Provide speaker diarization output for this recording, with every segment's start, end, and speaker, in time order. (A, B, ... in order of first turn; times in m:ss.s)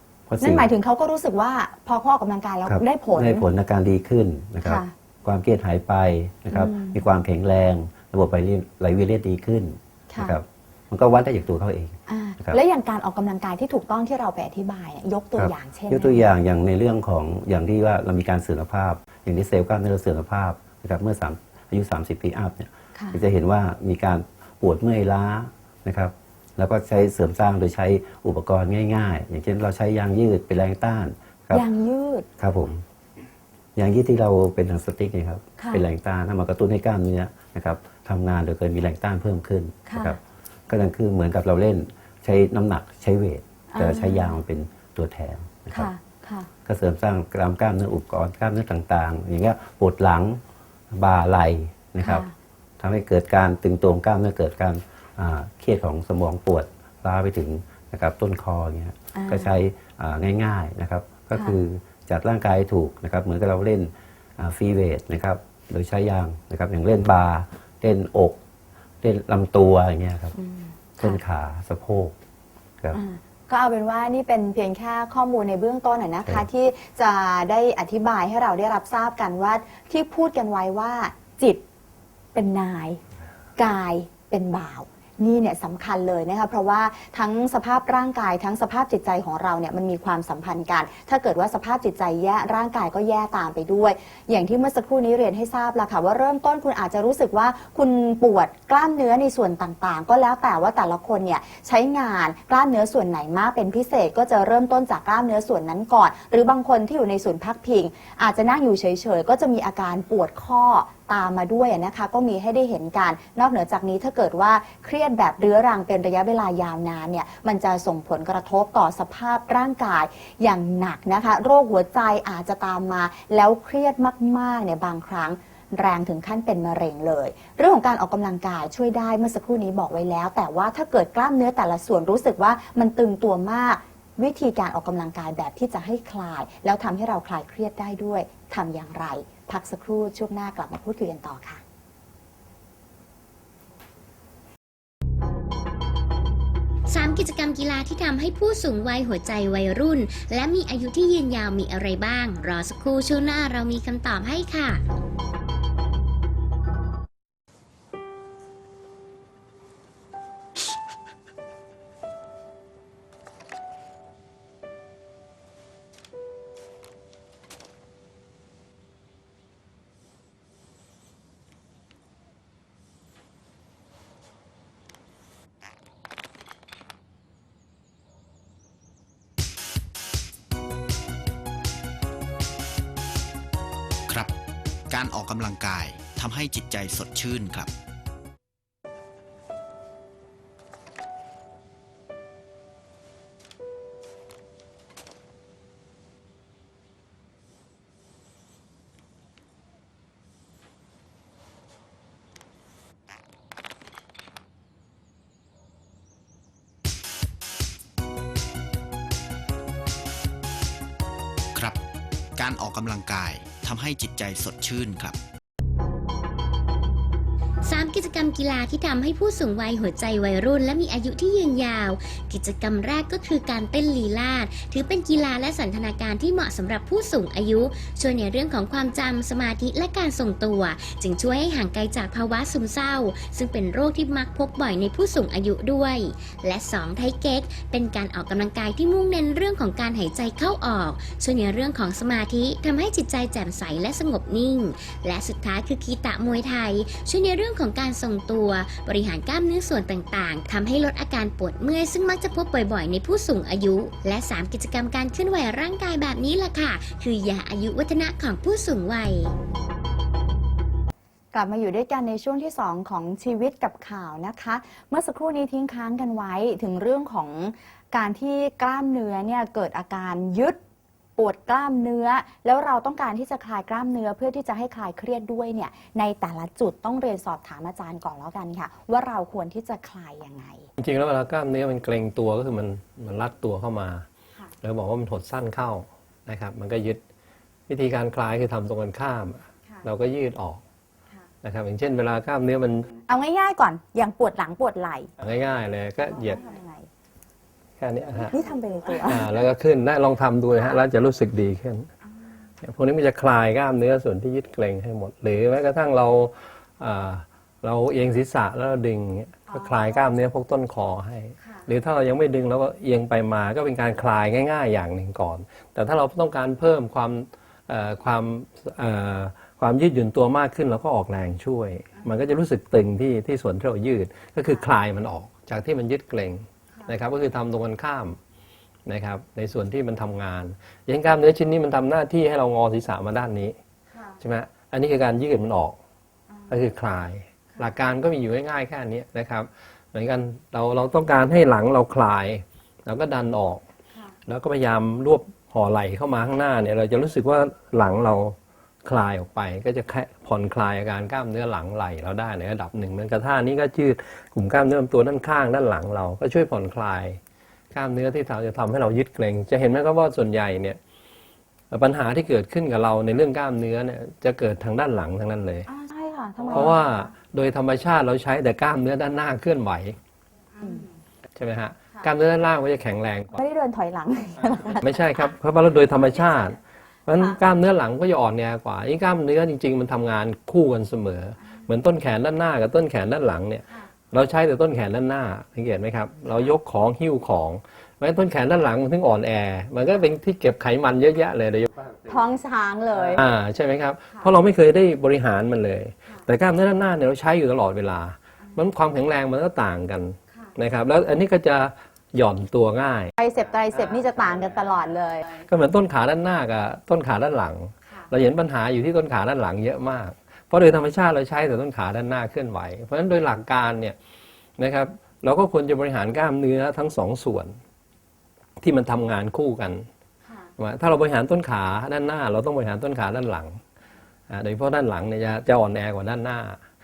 0:00.3-0:00.7 A
0:00.4-0:03.5 B
0:02.7-0:12.6 A
0:04.6-0:04.9 B
0:06.5-0:07.0 B
0:10.1-0:10.4 B
0:12.1-0:16.3 B
0:15.4-0:31.6 A
0:31.5-0:32.3 B
0:32.4-0:32.8 A
0:33.8-0:45.9 A
0:35.6-0:35.8 B
0:39.9-0:40.2 B
0:43.7-0:44.4 B
0:45.7-0:46.5 B
0:46.6-0:52.3 A
0:52.0-0:52.3 B
0:52.8-1:08.4 A
0:59.2-0:59.6 B
1:09.0-1:10.4 A
1:10.4-1:11.2 B
1:11.0-1:12.2 A
1:12.9-1:21.6 B
1:22.3-1:23.0 B
1:23.6-2:21.6 B
2:26.9-2:34.8 C
3:04.1-3:04.4 D
3:04.9-3:07.7 D
3:31.5-3:31.8 D
3:32.4-3:35.2 D
3:37.6-4:19.3 C
4:21.3-4:30.6 B
4:31.2-4:40.7 B
4:40.8-4:44.0 E
4:44.6-4:47.0 E
4:47.7-4:50.6 E
4:51.4-4:52.9 E
4:53.1-4:55.1 B
4:55.2-4:56.4 E
4:56.1-4:56.9 B
4:57.8-4:58.4 E
4:58.2-4:59.4 B
4:59.0-5:01.9 E
5:02.6-5:28.2 E
5:09.5-5:10.0 B
5:28.9-5:33.6 E
5:34.2-5:35.8 E
5:36.5-5:43.6 E
5:44.3-5:57.2 E
5:57.7-6:00.8 E
6:01.7-6:05.7 E
6:05.7-6:07.0 B
6:06.5-6:10.0 E
6:10.6-6:10.9 B
6:11.4-6:13.4 E
6:13.3-6:15.3 B
6:14.8-6:31.7 E
6:17.1-6:17.4 B
6:32.0-6:33.2 B
6:33.0-6:43.1 E
6:43.2-6:45.5 B
6:45.4-6:54.0 E
6:54.6-6:57.6 E
6:58.6-6:59.9 E
7:00.6-7:03.6 E
7:04.3-7:06.6 E